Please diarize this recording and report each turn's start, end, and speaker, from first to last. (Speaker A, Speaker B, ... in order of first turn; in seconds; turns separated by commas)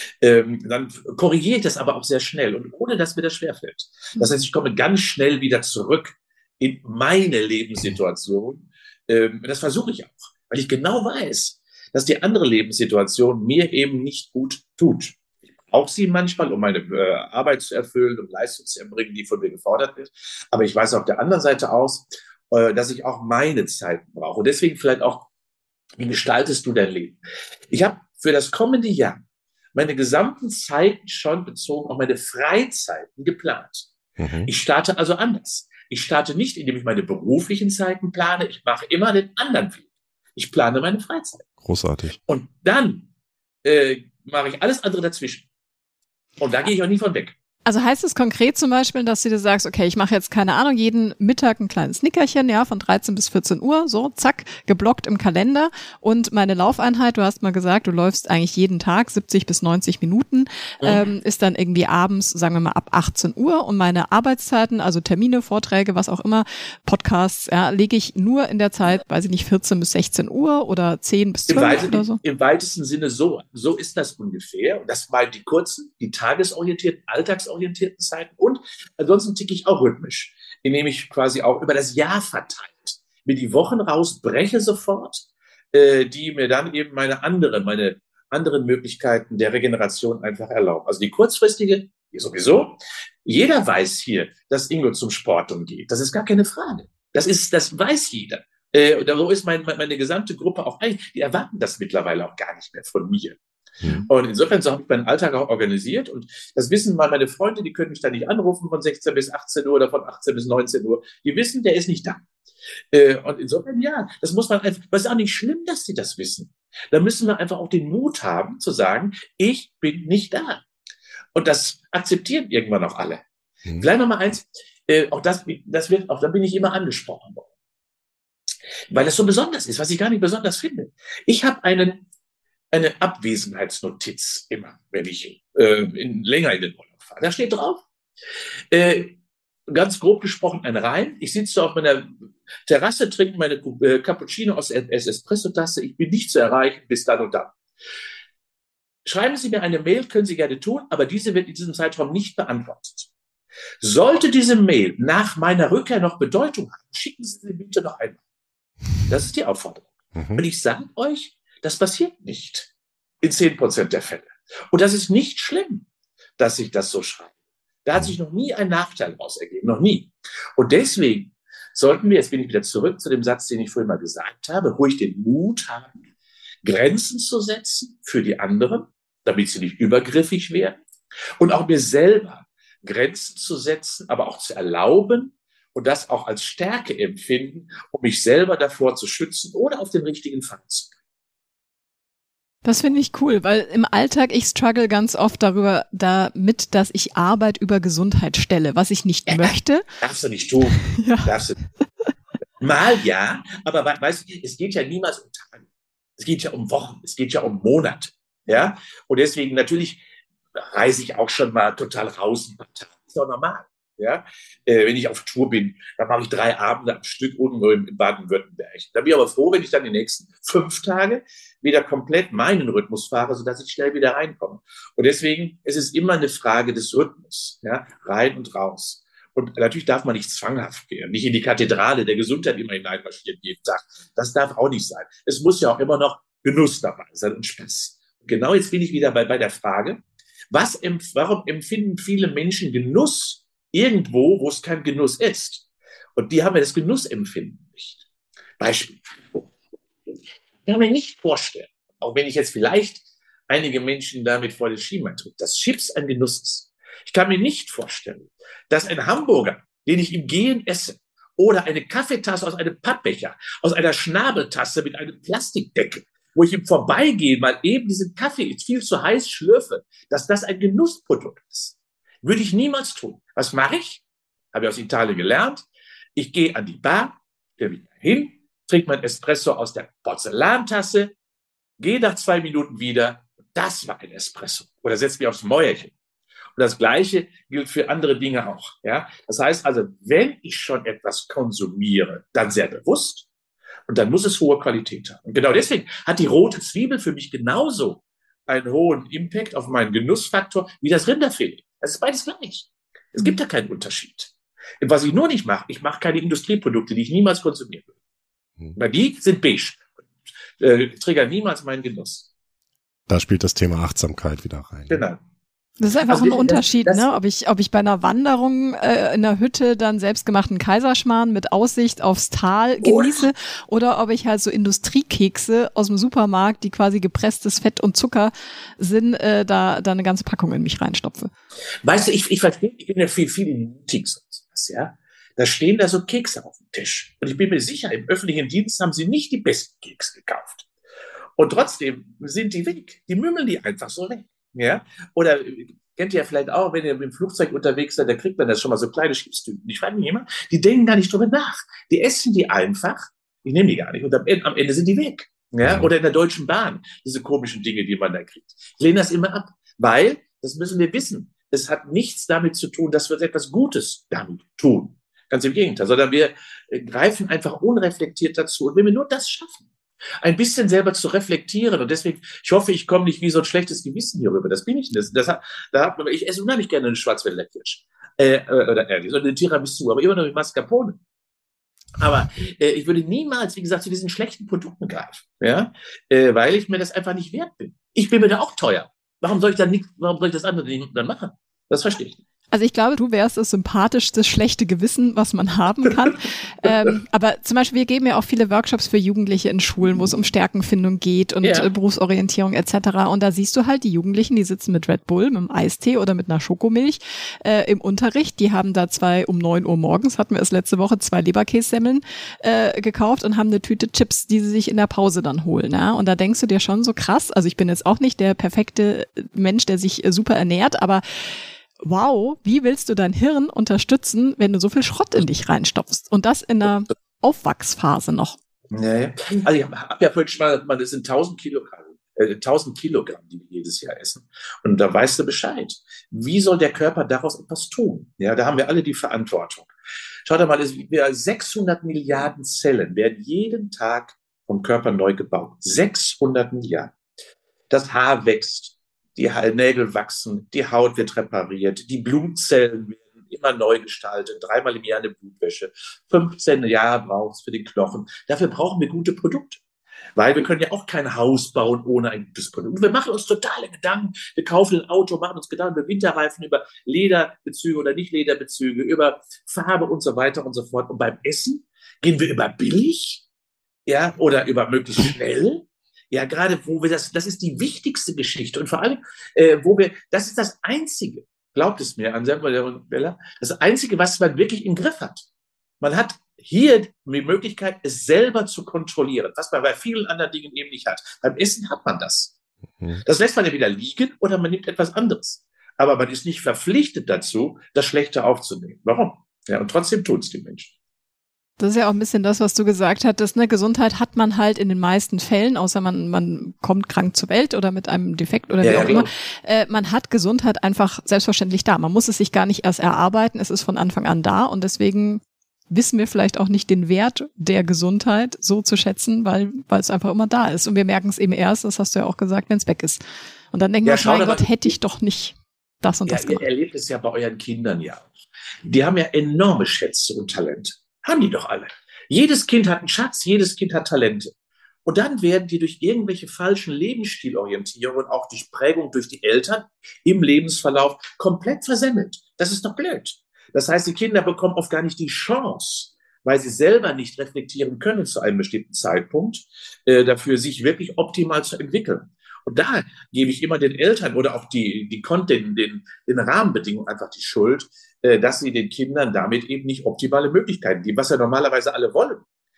Speaker A: 0.2-25.3, Speaker A: 26.0-29.2, Speaker A: 29.8-33.9, Speaker B: 34.2-34.5, Speaker A: 34.5-41.5, Speaker B: 41.6-42.2, Speaker A: 42.3-43.1, Speaker A: 43.6-45.5, Speaker A: 46.4-47.4, Speaker C: 47.7-72.2, Speaker A: 71.5-103.4, Speaker A: 104.0-112.2, Speaker A: 112.9-120.6, Speaker A: 121.3-123.2, Speaker A: 123.8-127.5, Speaker A: 128.9-132.0, Speaker A: 132.7-137.8, Speaker A: 138.7-142.2, Speaker A: 142.7-147.5, Speaker A: 149.1-153.1, Speaker A: 153.8-158.2, Speaker A: 159.0-162.7, Speaker B: 160.2-160.4, Speaker A: 163.2-165.9, Speaker A: 166.4-167.3, Speaker A: 167.8-176.0, Speaker A: 176.6-180.8, Speaker A: 181.4-190.9, Speaker C: 192.6-199.9, Speaker A: 199.3-201.6, Speaker C: 200.8-201.3, Speaker A: 202.6-205.7, Speaker A: 206.2-210.0, Speaker A: 210.6-240.0, Speaker A: 240.5-248.0, Speaker A: 248.6-249.5, Speaker A: 250.7-275.6, Speaker A: 276.2-281.1, Speaker A: 281.8-285.9, Speaker A: 286.6-293.3, Speaker A: 293.9-307.9, Speaker A: 308.8-310.0, Speaker A: 310.6-312.3, Speaker B: 313.1-315.0, Speaker A: 314.9-315.2, Speaker C: 315.8-331.3, Speaker A: 316.1-317.1, Speaker A: 322.8-323.3, Speaker A: 331.8-340.7, Speaker A: 341.4-369.7, Speaker B: 355.6-355.9, Speaker A: 370.2-381.0, Speaker A: 382.0-392.2, Speaker C: 392.5-421.0, Speaker A: 401.4-401.7, Speaker C: 421.8-428.4, Speaker A: 428.7-439.7, Speaker A: 440.3-446.9, Speaker A: 447.7-459.6, Speaker A: 460.2-473.2, Speaker A: 473.9-485.2, Speaker A: 485.8-492.4, Speaker A: 493.0-500.7, Speaker C: 501.6-526.5, Speaker A: 508.6-509.1, Speaker A: 523.9-524.7, Speaker A: 526.1-528.1, Speaker A: 528.6-534.3, Speaker A: 534.9-562.2